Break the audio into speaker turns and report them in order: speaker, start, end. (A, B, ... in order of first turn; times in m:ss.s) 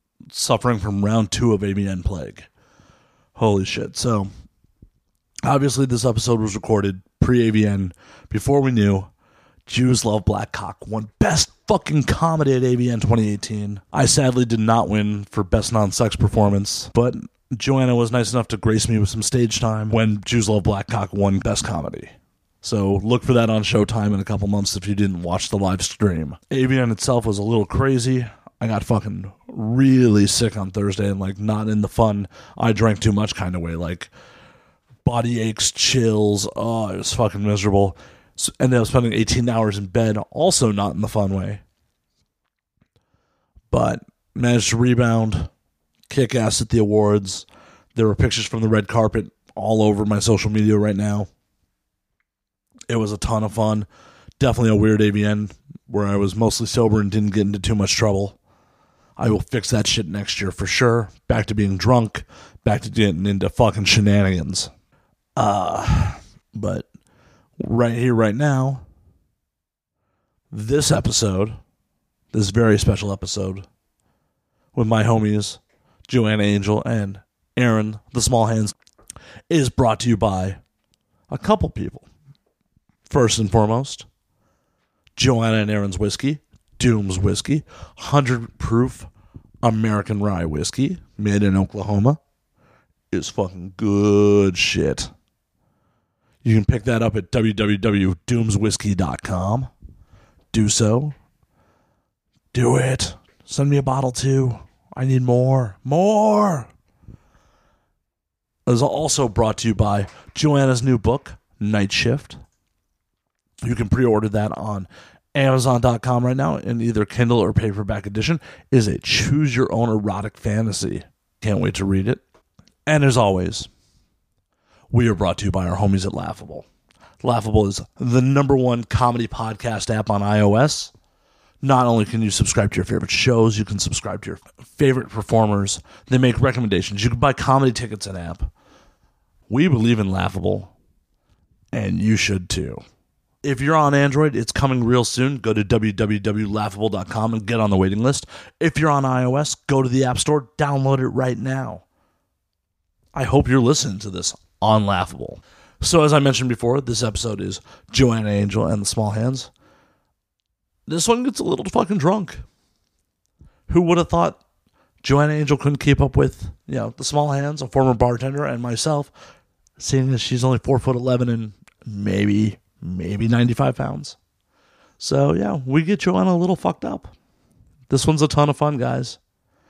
0:00.3-0:02.5 A
0:03.4-0:04.3 A
0:05.4-0:09.1 A
0:09.7-0:22.1 A
0:22.6-0:34.1 A
0:35.0-0:41.6 A
0:43.7-0:45.5 A
0:46.1-0:51.3 A
0:52.9-0:53.9 A
0:54.4-0:58.4 A
0:59.2-1:04.7 A
1:05.4-1:06.9 A
1:07.6-1:08.8 A
1:10.5-1:11.6 A
1:12.3-1:13.6 A
1:14.8-1:18.8 A
1:19.5-1:20.6 A
1:21.3-1:22.1 A
1:23.1-1:24.1 A
1:25.2-1:29.1 A
1:29.6-1:32.2 A
1:33.1-1:35.1 A
1:36.4-1:39.7 A
1:40.5-1:41.2 A
1:42.5-1:46.7 A
1:48.7-1:52.4 A
1:53.6-2:02.2 A
2:02.9-2:03.7 A
2:04.9-2:06.6 A
2:07.2-2:10.9 A
2:11.6-2:18.5 A
2:19.5-2:20.7 A
2:21.7-2:22.8 A
2:23.4-2:31.8 A
2:33.1-2:39.5 A
2:40.9-2:42.4 A
2:43.7-2:44.4 A
2:45.0-2:49.1 A
2:49.8-2:54.2 A
2:55.0-2:57.1 A
2:57.9-2:59.2 A